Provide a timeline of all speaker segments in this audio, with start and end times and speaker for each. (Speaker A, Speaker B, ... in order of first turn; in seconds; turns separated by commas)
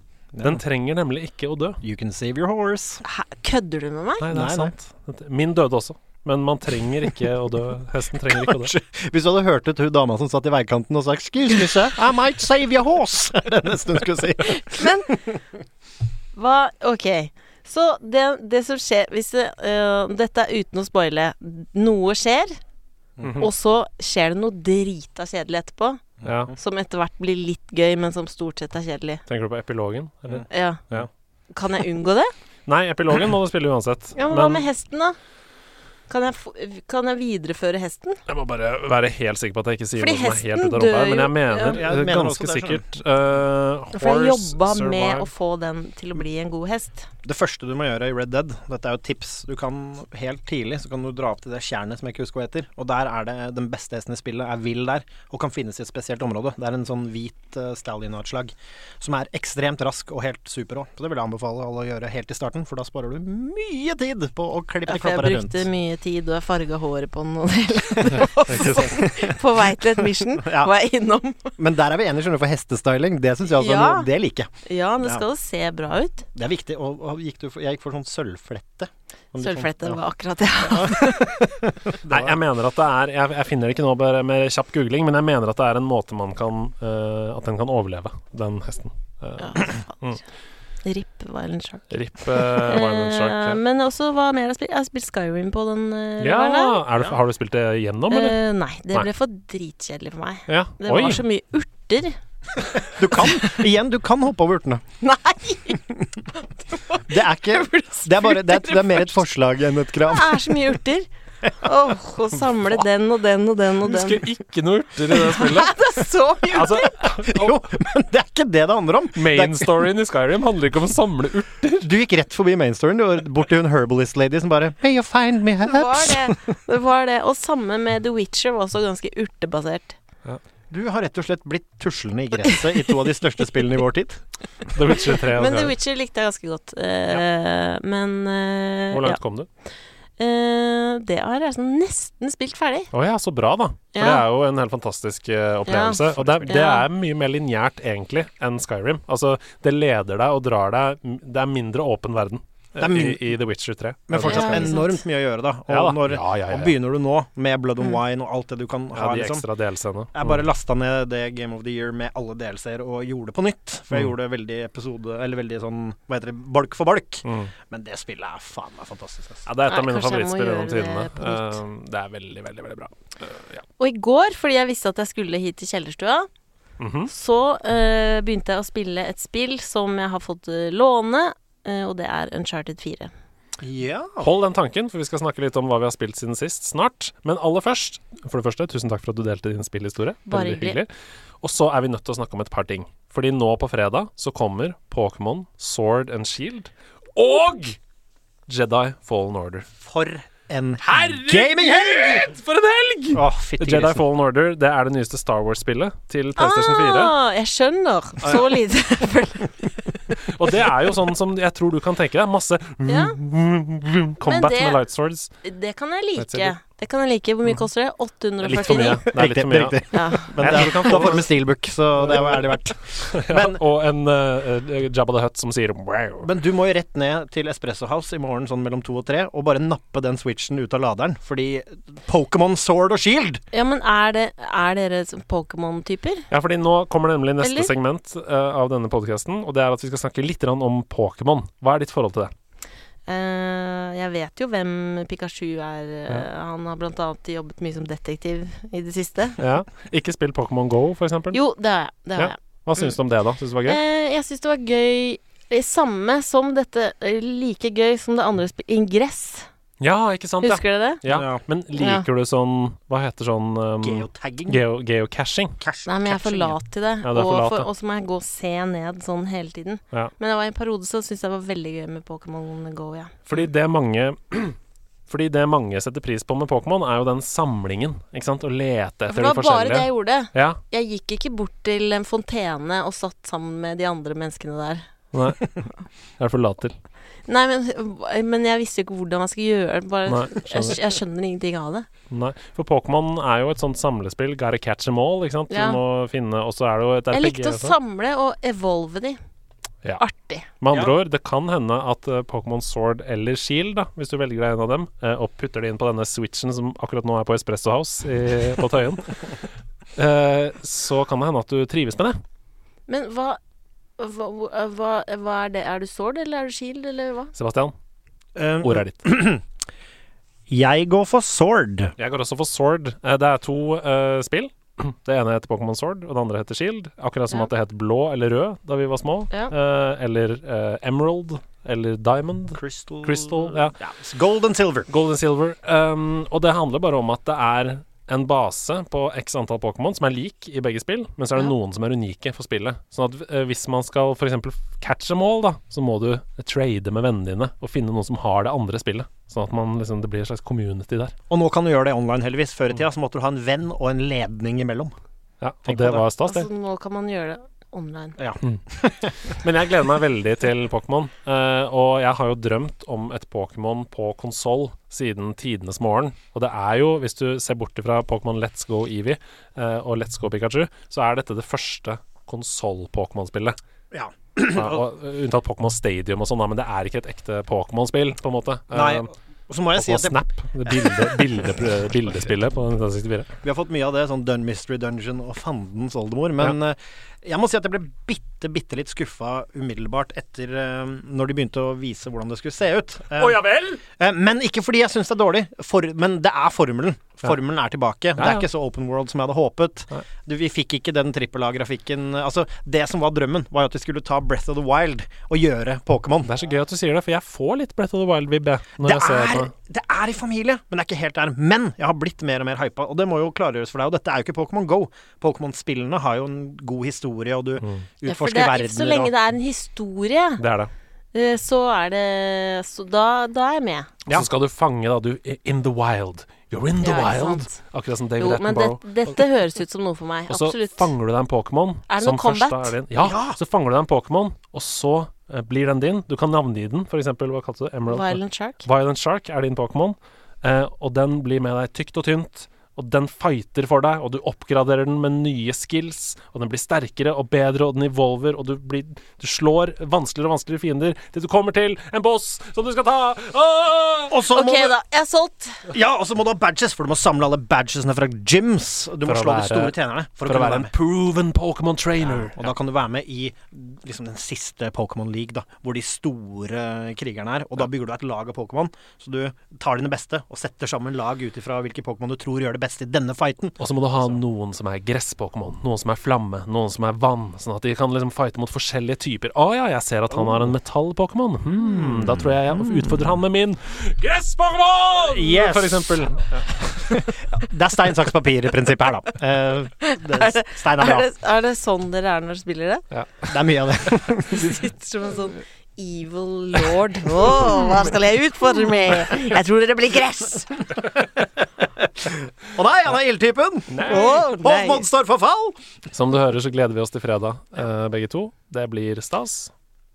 Speaker A: 0.3-0.6, Speaker B: 0.4-1.8, Speaker A: 1.8-3.0, Speaker C: 3.0-4.2, Speaker B: 4.2-8.7, Speaker A: 4.3-4.7, Speaker A: 8.3-15.4, Speaker C: 14.6-15.1, Speaker C: 16.3-22.6, Speaker B: 23.2-23.5, Speaker C: 23.4-26.0, Speaker A: 26.2-26.5, Speaker B: 26.2-26.5, Speaker C: 26.6-29.2, Speaker B: 29.3-31.1, Speaker A: 30.3-31.0, Speaker C: 30.5-30.8, Speaker C: 31.5-32.3, Speaker B: 32.7-34.7, Speaker C: 34.2-35.2, Speaker C: 36.1-38.2, Speaker B: 38.3-45.3, Speaker C: 40.0-41.8, Speaker A: 41.6-42.8, Speaker C: 43.9-47.1, Speaker A: 47.2-65.7, Speaker C: 64.8-71.5, Speaker A: 68.5-70.7, Speaker A: 71.6-74.5, Speaker C: 73.5-74.1, Speaker C: 74.7-76.2, Speaker A: 76.3-80.0, Speaker C: 79.4-81.4, Speaker A: 80.6-82.4, Speaker B: 82.1-90.2, Speaker C: 89.4-90.1, Speaker C: 90.8-96.8, Speaker B: 91.9-93.6, Speaker B: 96.2-98.4, Speaker C: 98.1-102.2, Speaker B: 100.5-101.2, Speaker A: 102.9-104.8, Speaker C: 103.2-103.6, Speaker C: 105.0-105.8, Speaker C: 106.3-109.2, Speaker A: 107.1-110.6, Speaker C: 110.1-114.2, Speaker B: 113.8-115.8, Speaker C: 115.1-116.9, Speaker B: 116.5-117.6, Speaker A: 117.0-119.8, Speaker B: 119.2-121.9, Speaker A: 121.8-126.4, Speaker C: 125.6-130.0, Speaker A: 130.7-134.2, Speaker B: 134.7-135.7, Speaker C: 135.2-139.2, Speaker B: 138.9-139.5, Speaker C: 140.2-142.9, Speaker B: 142.9-154.7, Speaker C: 143.9-144.2, Speaker C: 145.7-146.8, Speaker A: 146.1-146.6, Speaker A: 152.8-153.4, Speaker A: 154.1-159.4, Speaker C: 154.2-155.0, Speaker B: 155.7-156.8, Speaker B: 158.9-160.4, Speaker A: 160.1-169.4, Speaker B: 167.2-167.5, Speaker B: 169.4-173.6, Speaker C: 169.7-171.6, Speaker C: 173.8-176.3, Speaker B: 176.8-177.1, Speaker C: 177.1-183.1, Speaker A: 183.6-184.3, Speaker B: 184.2-190.9, Speaker C: 190.3-190.8, Speaker B: 191.4-197.8, Speaker B: 198.5-199.7, Speaker A: 199.8-202.3, Speaker B: 200.8-207.1, Speaker A: 203.1-204.0, Speaker C: 206.4-210.0, Speaker B: 210.3-215.3, Speaker C: 212.8-213.2, Speaker C: 214.2-214.8, Speaker C: 215.4-219.1, Speaker B: 216.2-216.5, Speaker B: 218.4-221.3, Speaker A: 219.1-223.6, Speaker C: 219.9-220.9, Speaker B: 222.1-222.3, Speaker B: 223.1-226.3, Speaker A: 226.2-233.4, Speaker C: 233.5-236.2, Speaker B: 236.3-242.3, Speaker C: 237.4-237.7, Speaker C: 243.1-249.4, Speaker B: 249.4-251.4, Speaker C: 251.3-252.9, Speaker B: 252.2-253.8, Speaker C: 253.7-259.5, Speaker B: 259.8-265.6, Speaker C: 260.4-261.0, Speaker A: 261.1-261.4, Speaker C: 261.8-262.0, Speaker A: 263.8-264.6, Speaker A: 265.6-266.6, Speaker C: 265.9-273.2, Speaker B: 267.0-267.7, Speaker B: 273.3-274.6, Speaker B: 275.1-280.6, Speaker C: 279.1-284.8, Speaker B: 285.1-285.5, Speaker B: 286.2-286.7, Speaker C: 287.3-291.9, Speaker B: 290.1-290.8, Speaker B: 292.1-297.8, Speaker C: 295.5-295.8, Speaker C: 297.1-299.2, Speaker C: 300.0-300.4, Speaker B: 300.6-309.2, Speaker B: 309.9-312.2, Speaker C: 312.9-313.4, Speaker C: 314.0-317.3, Speaker B: 317.3-317.7, Speaker A: 318.4-319.4, Speaker B: 318.6-319.0, Speaker A: 320.5-321.9, Speaker B: 322.0-333.8, Speaker A: 332.5-334.9, Speaker B: 334.9-351.1, Speaker A: 351.3-354.9, Speaker B: 355.4-356.5, Speaker A: 355.6-356.0, Speaker C: 356.2-358.2, Speaker A: 358.2-359.3, Speaker B: 359.3-373.6, Speaker A: 373.9-374.8, Speaker B: 374.5-379.1, Speaker A: 378.7-381.6, Speaker B: 379.8-383.3, Speaker A: 383.4-393.4, Speaker B: 393.2-393.8, Speaker A: 393.9-406.3, Speaker B: 398.1-398.4, Speaker B: 406.2-409.5, Speaker A: 408.8-419.1, Speaker B: 417.6-417.9, Speaker C: 418.1-420.4, Speaker B: 420.4-420.7, Speaker C: 421.1-423.9, Speaker B: 424.1-429.2, Speaker C: 426.8-427.6, Speaker C: 428.2-430.9, Speaker B: 430.3-454.1, Speaker C: 431.9-432.8, Speaker A: 432.9-433.4, Speaker C: 437.9-438.6, Speaker A: 454.1-454.7, Speaker C: 454.3-455.6, Speaker A: 455.7-460.7, Speaker B: 459.1-462.5, Speaker A: 462.0-474.2, Speaker B: 473.6-486.8, Speaker A: 480.1-480.5, Speaker A: 481.5-483.1, Speaker A: 485.1-486.1, Speaker A: 486.8-491.1, Speaker C: 489.8-492.8, Speaker B: 492.9-493.3, Speaker A: 493.3-494.5, Speaker C: 494.3-500.6, Speaker A: 501.1-505.6, Speaker B: 503.7-504.2, Speaker C: 503.8-504.9, Speaker B: 505.9-509.5